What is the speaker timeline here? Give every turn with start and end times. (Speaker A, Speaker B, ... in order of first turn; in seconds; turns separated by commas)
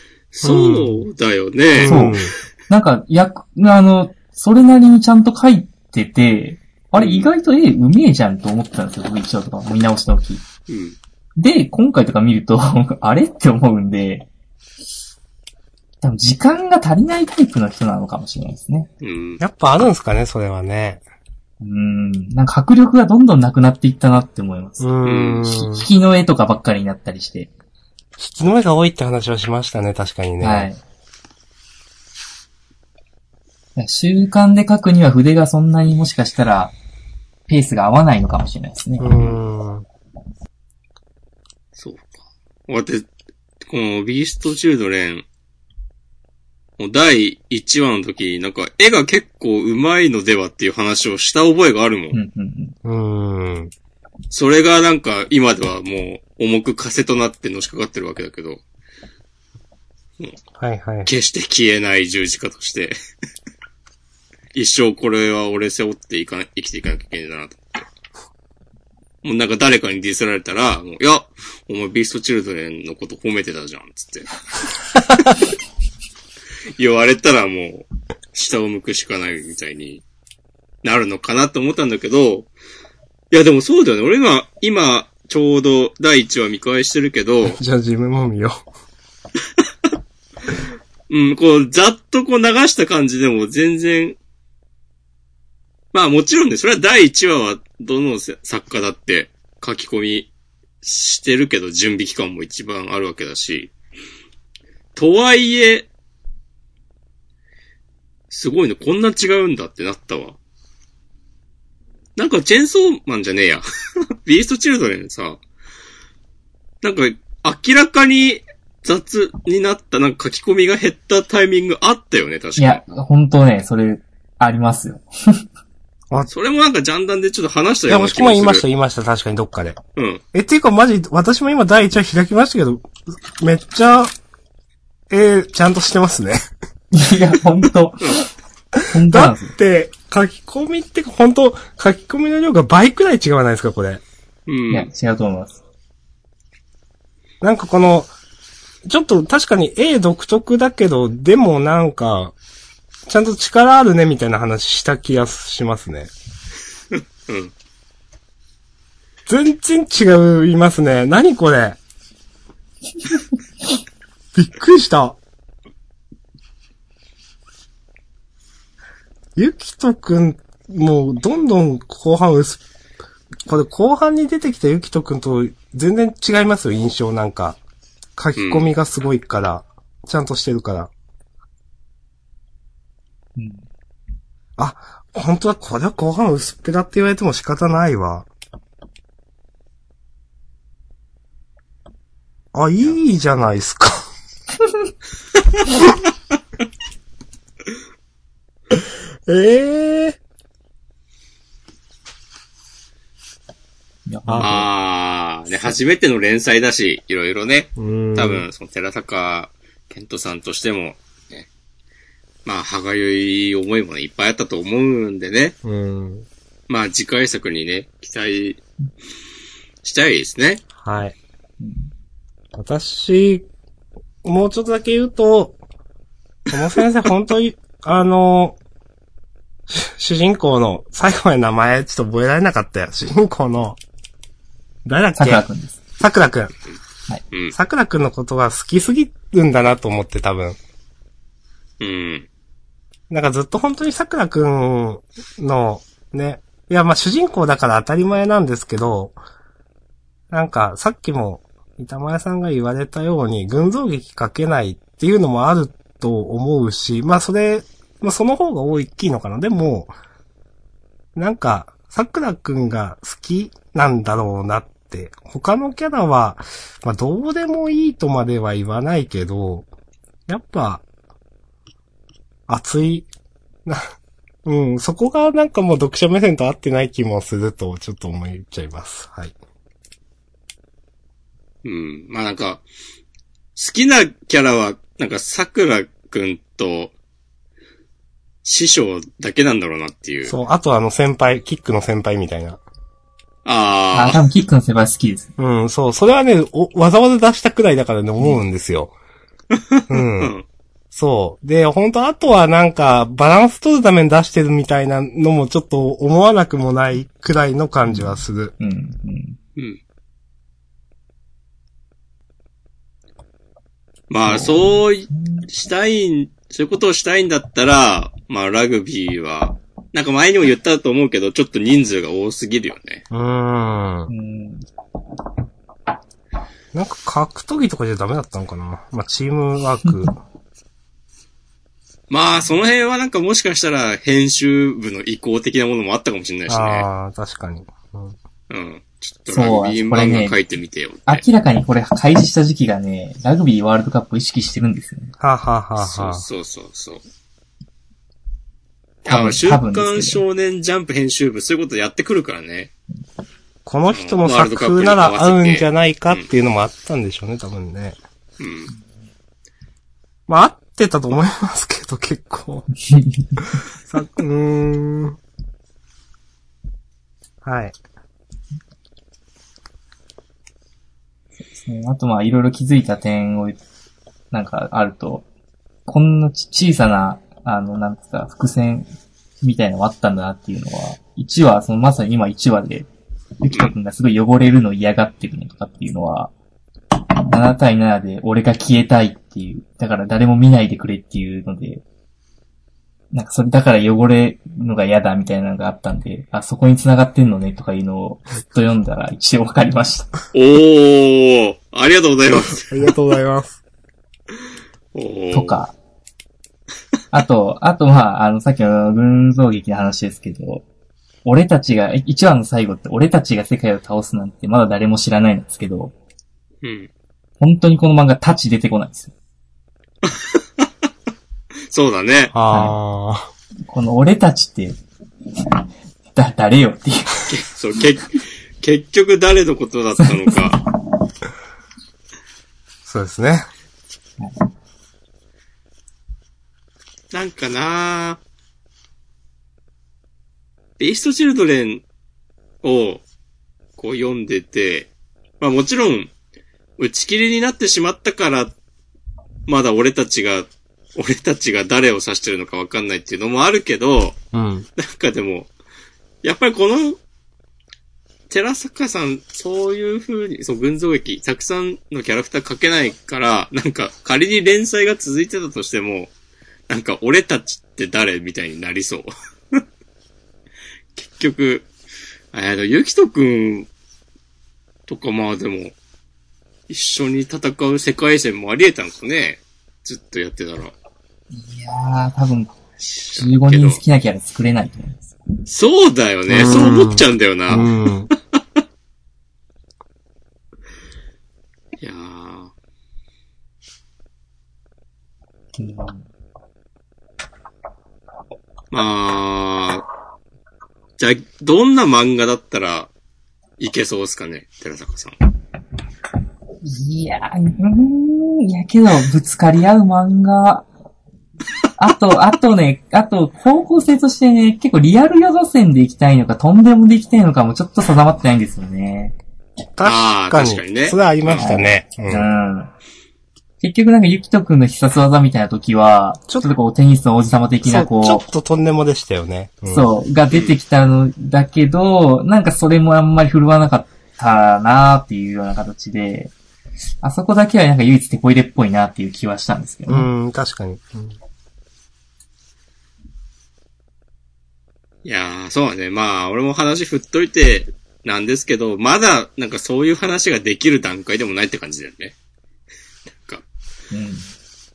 Speaker A: 0.3-2.1, Speaker B: 0.4-1.0, Speaker B: 1.7-2.3, Speaker C: 1.8-10.4, Speaker A: 7.0-7.3, Speaker A: 10.7-11.0, Speaker C: 11.4-14.3, Speaker C: 16.0-18.9, Speaker A: 19.0-19.4, Speaker B: 19.4-21.0, Speaker C: 21.6-24.9, Speaker B: 24.8-25.9, Speaker A: 25.0-25.4, Speaker C: 25.4-27.5, Speaker B: 28.2-30.7, Speaker C: 30.4-30.8, Speaker C: 33.8-36.7, Speaker C: 37.5-39.2, Speaker B: 39.0-39.9, Speaker A: 41.8-42.1, Speaker A: 42.7-43.1, Speaker A: 43.6-45.2, Speaker A: 46.8-52.1, Speaker C: 52.1-52.8, Speaker B: 52.8-53.7, Speaker A: 54.3-58.6, Speaker B: 60.6-61.1, Speaker A: 61.0-63.0, Speaker A: 64.5-67.8, Speaker A: 69.2-74.3, Speaker A: 76.8-80.0, Speaker A: 80.8-82.5, Speaker A: 83.3-87.6, Speaker B: 87.4-88.6, Speaker A: 91.1-94.2, Speaker A: 95.9-100.3, Speaker A: 100.8-103.7, Speaker A: 104.9-105.9, Speaker A: 108.3-110.4, Speaker A: 112.2-113.6, Speaker A: 114.2-115.4, Speaker A: 116.8-122.8, Speaker C: 122.6-125.4, Speaker A: 126.3-128.6, Speaker B: 127.9-129.8, Speaker A: 129.9-130.2, Speaker B: 130.3-134.1, Speaker B: 135.1-136.4, Speaker C: 136.9-138.3, Speaker B: 138.8-144.0, Speaker C: 138.9-139.5, Speaker A: 144.5-144.9, Speaker C: 144.7-145.6, Speaker B: 147.4-148.1, Speaker B: 148.8-152.3, Speaker B: 153.1-156.1, Speaker A: 157.3-157.5, Speaker B: 159.2-161.8, Speaker B: 164.3-165.2, Speaker B: 169.3-172.6, Speaker B: 173.4-177.6, Speaker B: 178.2-180.9, Speaker A: 178.4-178.7, Speaker C: 183.4-183.6, Speaker B: 184.6-188.3, Speaker B: 192.5-194.0, Speaker B: 198.7-200.2, Speaker C: 204.1-204.7, Speaker B: 204.2-204.5, Speaker A: 204.4-211.5, Speaker B: 207.8-208.5, Speaker A: 212.4-215.6, Speaker B: 215.6-216.3, Speaker A: 216.7-218.6, Speaker A: 219.8-220.6, Speaker B: 220.8-221.1, Speaker C: 221.6-221.9, Speaker B: 222.5-223.5, Speaker B: 224.2-225.6, Speaker B: 226.5-228.6, Speaker B: 229.7-233.8, Speaker B: 234.8-235.4, Speaker C: 235.2-235.8, Speaker B: 236.0-236.5, Speaker B: 237.5-240.6, Speaker A: 241.8-242.3, Speaker B: 243.1-249.2, Speaker B: 250.3-259.9, Speaker B: 261.1-269.7, Speaker B: 270.3-270.8, Speaker B: 272.5-273.1, Speaker B: 273.6-273.9, Speaker B: 274.4-279.4, Speaker A: 281.6-282.6, Speaker A: 283.6-286.9, Speaker A: 288.4-290.3, Speaker B: 290.3-292.6, Speaker A: 293.4-294.3, Speaker C: 293.9-295.3, Speaker B: 295.4-298.9, Speaker A: 299.5-300.4, Speaker B: 299.9-300.3, Speaker B: 300.9-308.5, Speaker C: 307.9-309.4, Speaker A: 314.1-323.0, Speaker C: 314.3-315.5, Speaker B: 323.1-324.1, Speaker C: 324.1-324.6, Speaker B: 326.7-330.1, Speaker A: 332.1-336.9, Speaker B: 336.5-338.1, Speaker A: 338.5-341.2, Speaker C: 339.3-340.4, Speaker C: 341.1-345.1, Speaker B: 345.2-346.2, Speaker A: 345.8-347.0, Speaker A: 349.0-352.7, Speaker C: 349.1-350.2, Speaker B: 353.6-358.0, Speaker A: 353.9-356.3, Speaker A: 358.4-358.7, Speaker B: 360.3-362.7, Speaker C: 362.9-363.4, Speaker B: 363.4-365.2, Speaker B: 367.4-367.8, Speaker C: 371.4-373.6, Speaker C: 374.3-375.2, Speaker C: 375.9-378.9, Speaker C: 379.4-382.9, Speaker C: 383.4-386.3, Speaker C: 387.2-391.8, Speaker C: 393.1-400.1, Speaker A: 400.3-402.7, Speaker B: 402.5-403.6, Speaker A: 404.9-405.6, Speaker C: 405.3-405.7, Speaker C: 407.1-410.6, Speaker C: 411.2-415.9, Speaker A: 416.6-416.9, Speaker C: 417.4-419.1, Speaker A: 420.0-420.7, Speaker A: 421.7-422.3, Speaker B: 422.3-423.3, Speaker C: 422.5-422.8, Speaker C: 423.6-424.8, Speaker C: 426.1-427.3, Speaker A: 427.3-430.6, Speaker C: 430.0-430.9, Speaker B: 432.9-433.5, Speaker C: 434.2-434.4, Speaker A: 437.1-438.2, Speaker A: 440.8-441.8, Speaker A: 442.6-443.0, Speaker A: 443.8-446.1, Speaker A: 446.8-448.5, Speaker A: 449.5-454.2, Speaker B: 454.3-454.7, Speaker A: 454.8-455.5, Speaker A: 456.2-457.0, Speaker A: 458.3-466.1, Speaker A: 466.7-469.6, Speaker A: 470.9-471.7, Speaker A: 472.3-473.7, Speaker A: 474.9-475.7, Speaker A: 476.7-480.7, Speaker C: 481.4-482.6, Speaker A: 482.8-483.8, Speaker C: 483.1-485.1, Speaker A: 485.4-487.7, Speaker B: 486.3-488.1, Speaker A: 491.8-492.5, Speaker C: 495.5-496.0, Speaker A: 498.7-499.9, Speaker A: 501.0-502.9, Speaker A: 503.6-505.1, Speaker C: 506.6-510.7, Speaker C: 511.8-519.1, Speaker B: 519.8-522.3, Speaker A: 519.8-521.5, Speaker C: 521.4-522.7, Speaker C: 523.6-528.2, Speaker B: 527.6-529.9, Speaker C: 529.7-536.3, Speaker C: 537.0-540.1, Speaker B: 539.9-541.2, Speaker A: 545.0-552.1, Speaker C: 553.9-554.3